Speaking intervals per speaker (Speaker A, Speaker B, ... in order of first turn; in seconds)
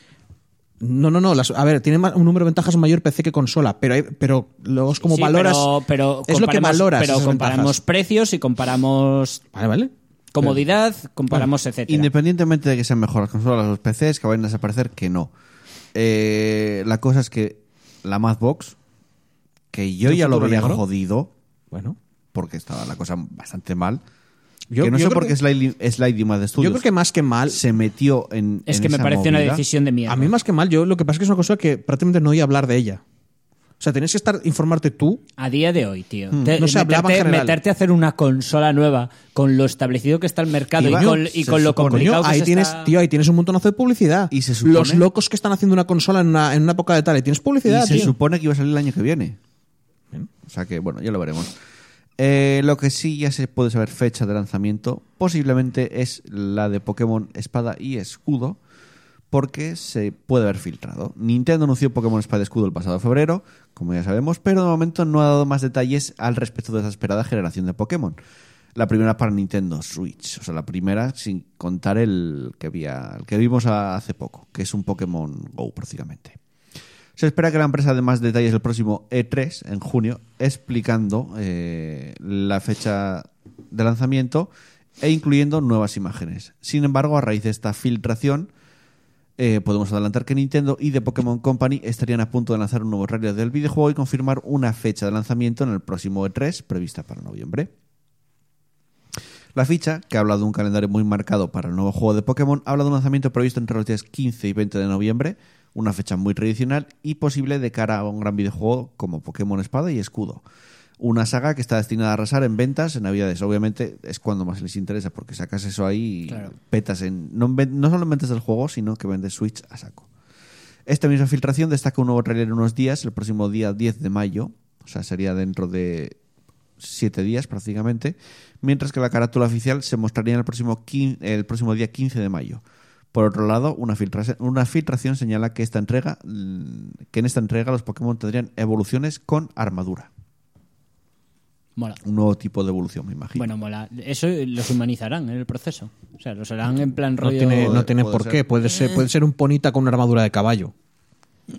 Speaker A: 0.8-5.7, 6.3-7.8, 9.5-9.9, 20.0-20.8, 21.7-22.0, 24.7-25.4, 26.6-27.6, 30.1-33.0, 33.8-35.2, 36.6-37.6, 40.8-41.2, 41.9-48.1, 147.2-150.7
Speaker B: 5.0-9.4, 10.3-12.1, 28.6-30.3, 35.4-42.9, 143.3-147.8
Speaker C: 11.9-15.3, 15.9-18.8, 19.7-21.3, 22.3-24.0, 24.8-26.8, 27.5-29.6, 40.8-42.1, 44.3-45.1, 47.7-49.4, 50.5-51.5, 52.2-58.6, 59.3-68.2, 68.7-76.4, 77.2-88.5, 89.4-97.7, 99.5-110.4, 111.0-120.0, 120.9-126.2, 126.8-132.6, 133.1-140.1, 142.0-143.5, 147.6-148.4